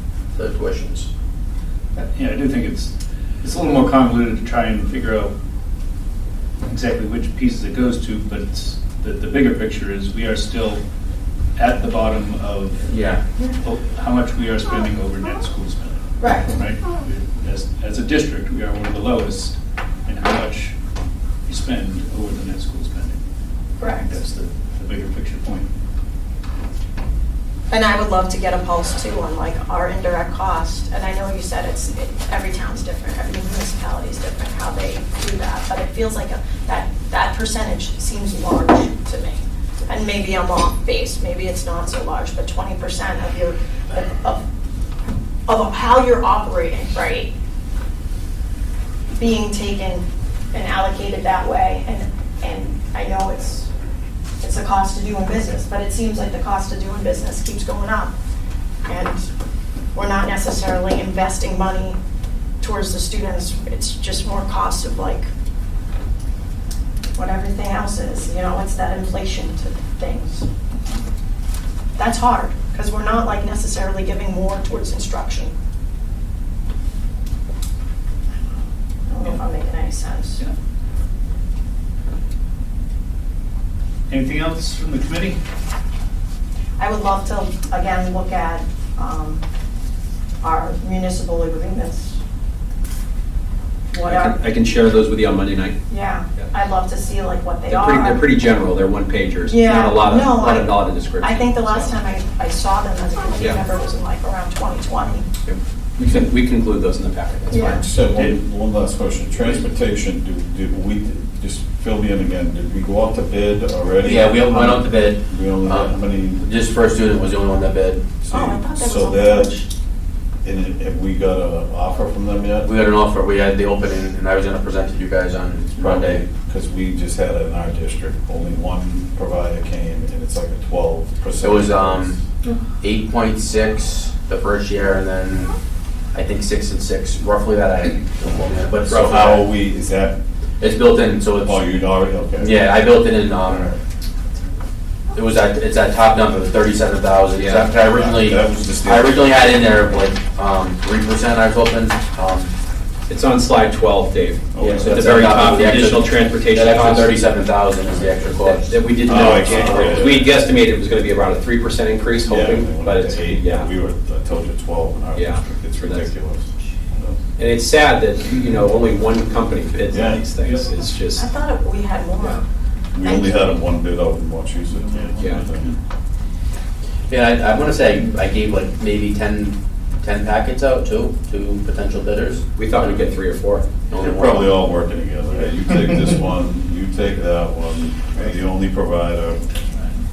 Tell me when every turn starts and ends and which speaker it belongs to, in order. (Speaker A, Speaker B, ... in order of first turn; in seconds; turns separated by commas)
Speaker A: 0.3-1.1, Speaker B: 2.0-5.3, Speaker B: 6.7-10.8, Speaker B: 11.6-13.0, Speaker A: 12.9-13.2, Speaker B: 13.6-20.7, Speaker C: 16.2-16.5, Speaker B: 21.4-23.2, Speaker C: 23.8-24.1, Speaker B: 23.8-25.6, Speaker C: 27.7-44.4, Speaker C: 45.5-47.3, Speaker C: 49.1-53.7, Speaker C: 54.4-58.1, Speaker C: 58.8-59.2, Speaker C: 59.9-62.0, Speaker C: 62.6-65.3, Speaker C: 67.1-70.5, Speaker C: 72.0-75.5, Speaker C: 79.1-80.4, Speaker B: 84.1-85.4, Speaker C: 86.8-89.4, Speaker C: 90.4-92.2, Speaker C: 93.9-94.4, Speaker D: 94.0-95.8, Speaker C: 95.9-98.3, Speaker D: 97.7-101.9, Speaker C: 99.5-105.3, Speaker D: 103.4-103.6, Speaker D: 105.4-107.8, Speaker C: 107.5-107.8, Speaker E: 107.6-116.5, Speaker B: 108.0-108.4, Speaker A: 114.0-118.0, Speaker E: 118.2-119.6, Speaker C: 118.3-119.7, Speaker E: 120.4-122.7, Speaker A: 122.6-126.2, Speaker E: 125.8-132.2, Speaker A: 131.4-132.2, Speaker A: 132.8-135.5, Speaker A: 136.1-139.4, Speaker E: 138.9-140.2, Speaker A: 140.6-141.7, Speaker E: 141.4-142.6, Speaker A: 142.4-143.7, Speaker E: 143.5-143.8, Speaker A: 145.1-152.5, Speaker D: 147.3-147.7, Speaker E: 147.7-149.7, Speaker D: 153.1-157.2, Speaker E: 154.5-155.2, Speaker A: 154.8-160.0, Speaker E: 157.9-158.2, Speaker D: 158.4-163.7, Speaker E: 159.0-160.3, Speaker E: 162.2-167.2, Speaker D: 165.1-166.1, Speaker D: 167.4-171.2, Speaker E: 169.9-170.3, Speaker B: 170.4-170.7, Speaker C: 171.2-172.4, Speaker E: 172.9-175.7, Speaker C: 173.0-173.6, Speaker B: 174.7-175.3, Speaker A: 177.1-183.0, Speaker D: 182.6-183.6, Speaker A: 183.9-184.6, Speaker E: 184.0-189.4, Speaker B: 189.7-190.0